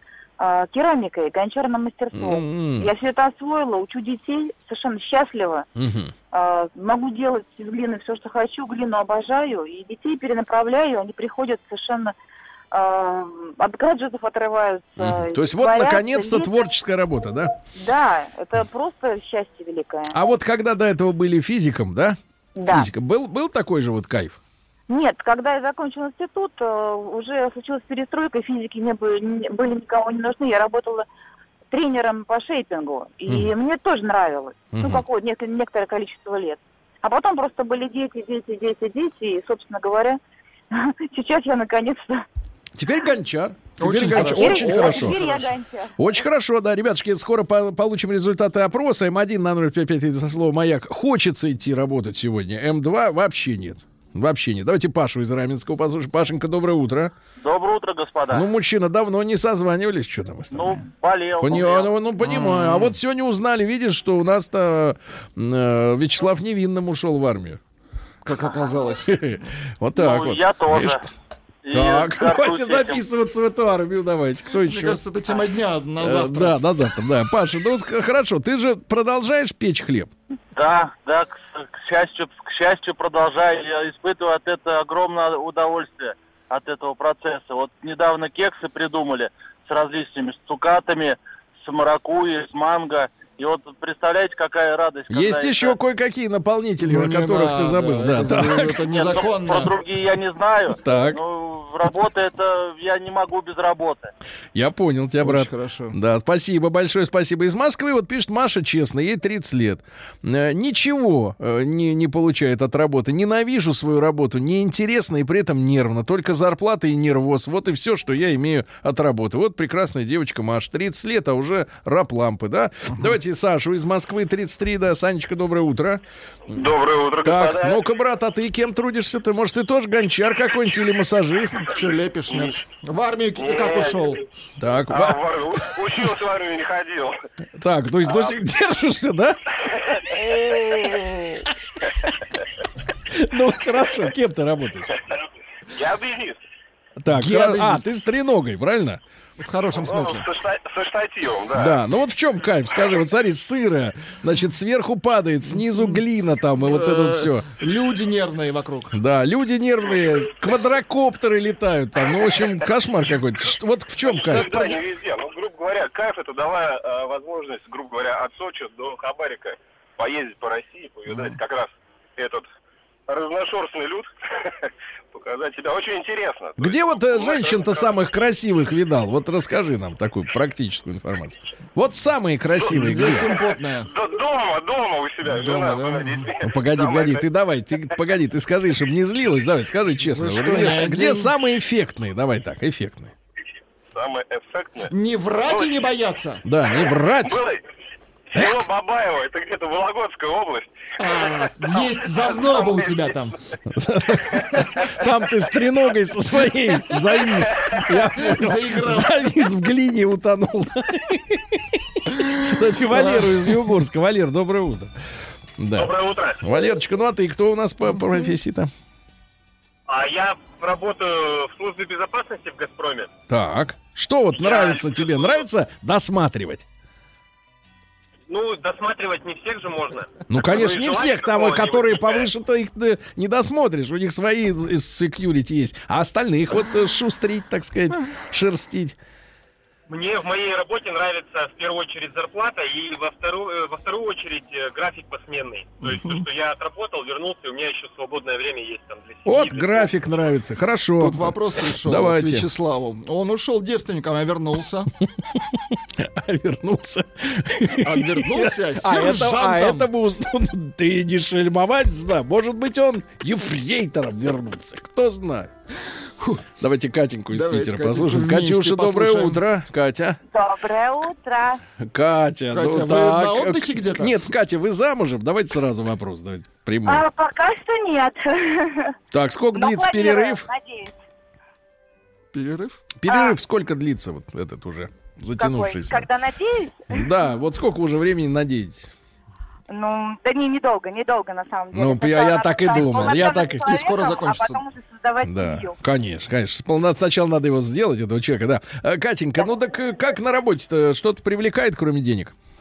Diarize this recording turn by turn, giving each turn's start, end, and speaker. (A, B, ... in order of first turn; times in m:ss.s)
0:00.4-0:05.6 A
0:02.1-0:02.9 B
0:05.8-0:06.1 B
0:06.3-0:12.1 A
0:12.7-0:16.6 A
0:15.0-0:17.5 B
0:17.8-0:20.1 A
0:20.1-0:24.4 B
0:22.6-0:22.8 A
0:24.9-0:31.0 A
0:31.7-0:40.2 A
0:33.2-0:33.5 B
0:34.7-0:35.0 B
0:41.1-0:42.2 A
0:42.8-0:45.2 B
0:43.8-0:45.4 C
0:44.2-0:45.9 A
0:46.0-0:57.1 B
0:57.4-0:58.5 D
0:58.3-1:00.7 B
1:00.5-1:01.9 D
1:01.4-1:07.6 B
1:02.2-1:02.9 C
1:08.2-1:09.1 C
1:09.1-1:11.0 B
1:09.9-1:11.0 D
1:11.6-1:13.0 D
1:11.7-1:15.0 B
1:14.5-1:16.6 C
1:16.0-1:20.1 B
1:20.5-1:35.7 D
1:35.1-1:38.9 B
1:36.8-1:39.8 C
1:38.9-1:44.1 D
1:40.8-1:41.2 B
1:44.5-2:06.7 B
1:45.2-1:45.9 C
2:06.5-2:07.8 E
2:07.2-2:11.8 B
2:11.6-2:14.2 C
2:13.4-2:14.1 E
2:14.6-2:15.2 B
2:14.9-2:17.2 E
2:17.6-2:19.4 B
2:18.1-2:18.3 E
2:20.1-2:21.4 B
2:23.1-2:24.9 B
2:25.8-2:26.4 E
2:27.0-2:29.0 B
2:27.1-2:27.8 C
2:29.4-2:30.3 C
2:29.9-2:31.8 E
2:31.5-2:37.4 B
2:36.7-2:38.9 C
2:38.9-2:44.8 B
2:44.0-2:52.4 E
2:53.1-2:54.1 E
2:55.1-2:57.9 E
2:56.6-3:03.3 B
3:02.7-3:03.9 C
3:03.0-3:07.3 E
3:05.2-3:06.3 C
3:06.4-3:13.1 B
3:10.1-3:11.3 C
3:13.9-3:14.9 E
3:14.9-3:16.4 C
3:16.4-3:17.4 B
3:17.2-3:17.6 E
3:18.3-3:20.7 E
3:18.3-3:18.6 B
3:21.0-3:23.4 C
3:21.4-3:21.8 E
3:22.3-3:23.1 E
3:23.7-3:34.9 B
3:28.2-3:29.4 C
3:32.9-3:33.3 C
3:35.6-3:38.7 B
3:35.7-3:36.7 E
3:39.9-3:43.1 E
3:43.3-3:46.6 B
3:44.3-3:45.4 E
3:48.3-3:52.3 E
3:50.3-3:59.0 B
3:59.9-4:09.9 E
4:09.2-4:12.4 B
4:11.0-4:14.9 C
4:15.7-4:25.5 B
4:17.8-4:19.9 C
4:26.6-4:30.2 B
4:27.3-4:29.4 C
4:30.3-4:31.6 A
4:31.8-4:37.0 B
4:32.5-4:34.1 C
4:36.9-4:38.9 A
4:39.1-4:40.5 B
4:39.5-4:40.9 A
4:42.3-4:42.8 C
4:43.0-4:46.1 B
4:43.1-4:43.3 A
4:45.4-4:47.0 A
4:46.9-4:48.8 B
4:49.7-4:55.8 A
4:51.7-4:53.7 B
4:53.6-4:54.6 C
4:55.2-5:02.3 B